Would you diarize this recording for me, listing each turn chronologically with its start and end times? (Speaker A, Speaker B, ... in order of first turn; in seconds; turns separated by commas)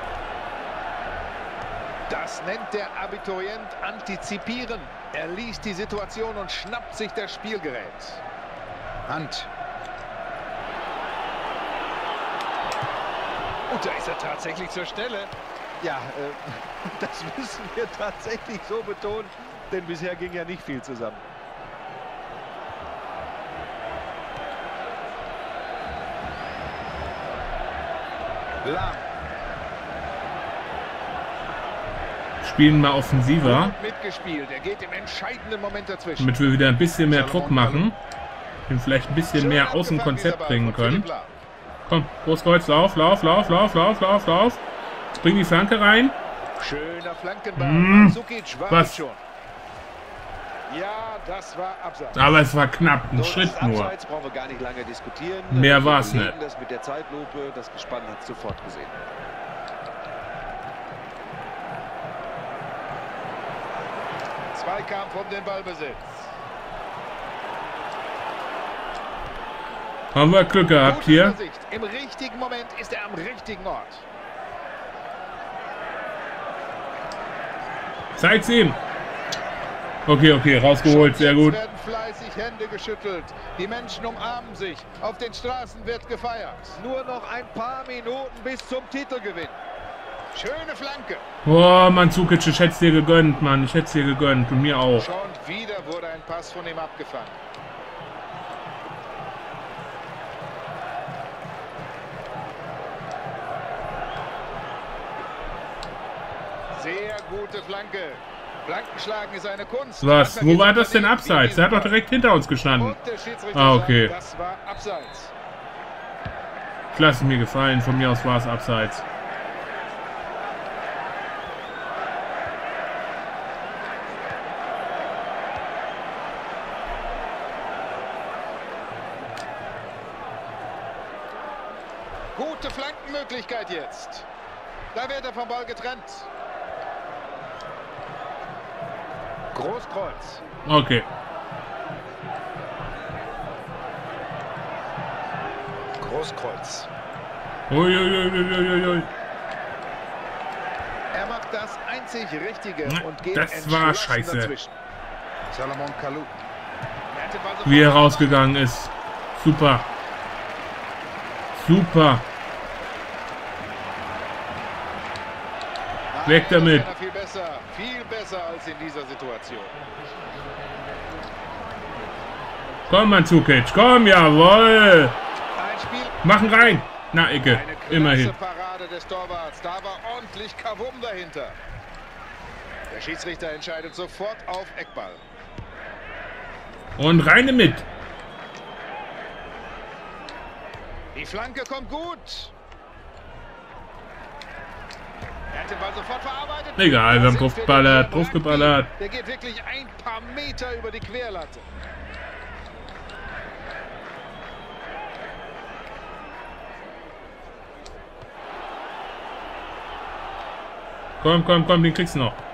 Speaker A: 2.1-8.2, Speaker A: 9.1-9.5, Speaker A: 13.7-15.3, Speaker B: 15.8-21.2, Speaker A: 28.6-29.1, Speaker C: 32.4-33.8, Speaker A: 33.4-36.3, Speaker C: 36.2-38.0, Speaker A: 37.1-37.9, Speaker C: 38.7-41.1, Speaker A: 39.3-41.4, Speaker C: 41.9-44.6, Speaker C: 45.1-46.2, Speaker A: 46.6-49.2, Speaker C: 47.6-48.2, Speaker C: 48.7-49.0, Speaker A: 50.7-52.4, Speaker C: 52.1-53.9, Speaker B: 53.1-59.0, Speaker C: 55.5-56.4, Speaker A: 64.5-66.2, Speaker C: 70.1-71.4, Speaker A: 70.8-74.0, Speaker C: 78.2-78.8, Speaker C: 80.1-81.6, Speaker A: 80.8-86.8, Speaker B: 86.8-89.6, Speaker A: 90.3-91.2, Speaker C: 91.5-95.1, Speaker A: 95.0-97.4, Speaker A: 106.7-112.0, Speaker C: 110.0-113.0, Speaker A: 112.7-115.3, Speaker C: 113.5-114.1, Speaker C: 116.9-119.0, Speaker A: 132.3-134.3, Speaker A: 134.9-136.3, Speaker A: 139.5-140.4, Speaker C: 140.7-141.1, Speaker A: 146.0-146.9, Speaker C: 147.7-149.1, Speaker A: 151.1-154.8, Speaker C: 152.9-154.5, Speaker A: 155.5-156.3, Speaker A: 157.1-158.5, Speaker C: 157.7-159.9, Speaker C: 161.5-162.2, Speaker A: 166.1-169.8, Speaker C: 166.2-166.9, Speaker C: 172.9-175.2, Speaker A: 175.6-176.8, Speaker C: 176.2-178.3, Speaker A: 177.4-181.6, Speaker A: 182.9-185.2, Speaker C: 187.0-187.9, Speaker A: 191.1-192.5, Speaker A: 195.5-201.7, Speaker C: 196.8-198.9, Speaker C: 211.2-212.4